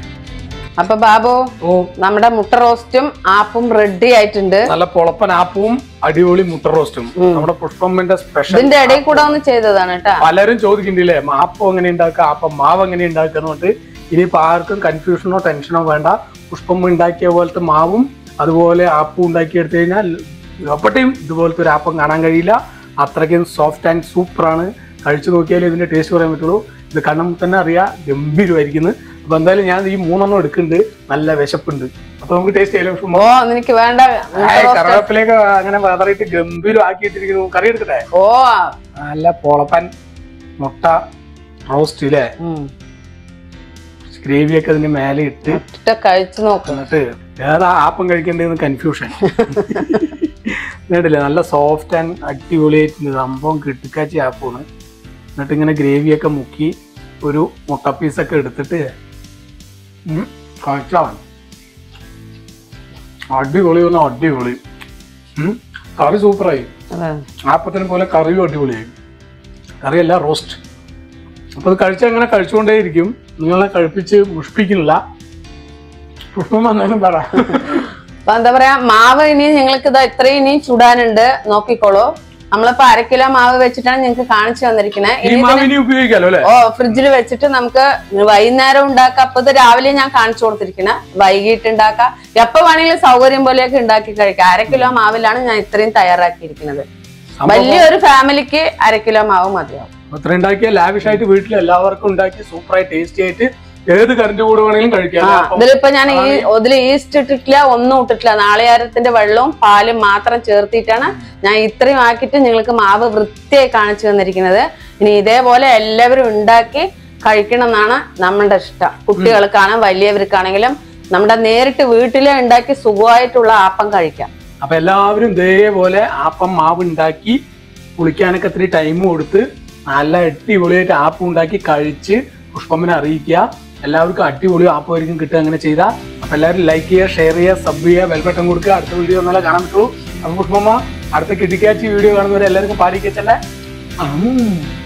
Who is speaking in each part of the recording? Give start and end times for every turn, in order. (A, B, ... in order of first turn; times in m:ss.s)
0:00.8-0:01.4 A
0:01.6-0:01.9 B
0:02.0-0:04.7 A
0:04.7-0:09.4 B
0:07.2-0:07.4 A
0:08.5-0:10.2 A
0:10.2-0:33.2 B
0:33.1-0:35.1 A
0:34.4-0:38.0 B
0:38.1-0:38.7 A
0:39.0-0:39.9 B
0:40.6-0:41.0 B
0:41.7-0:42.3 B
0:42.4-0:42.7 A
0:44.1-0:45.6 B
0:45.5-0:46.8 A
0:46.7-0:54.6 B
0:55.4-0:58.9 B
1:00.1-1:01.2 B
1:03.3-1:04.6 B
1:05.4-1:06.7 B
1:06.9-1:07.2 A
1:07.5-1:08.9 B
1:09.8-1:10.6 B
1:11.6-1:15.0 B
1:16.3-1:17.9 B
1:18.2-1:25.7 A
1:25.2-1:26.5 B
1:26.4-1:36.8 A
1:37.4-1:37.9 B
1:37.4-1:39.9 A
1:40.1-1:46.4 B
1:45.2-2:04.3 A
2:04.6-2:07.4 B
2:08.0-2:23.4 B
2:24.0-2:24.7 B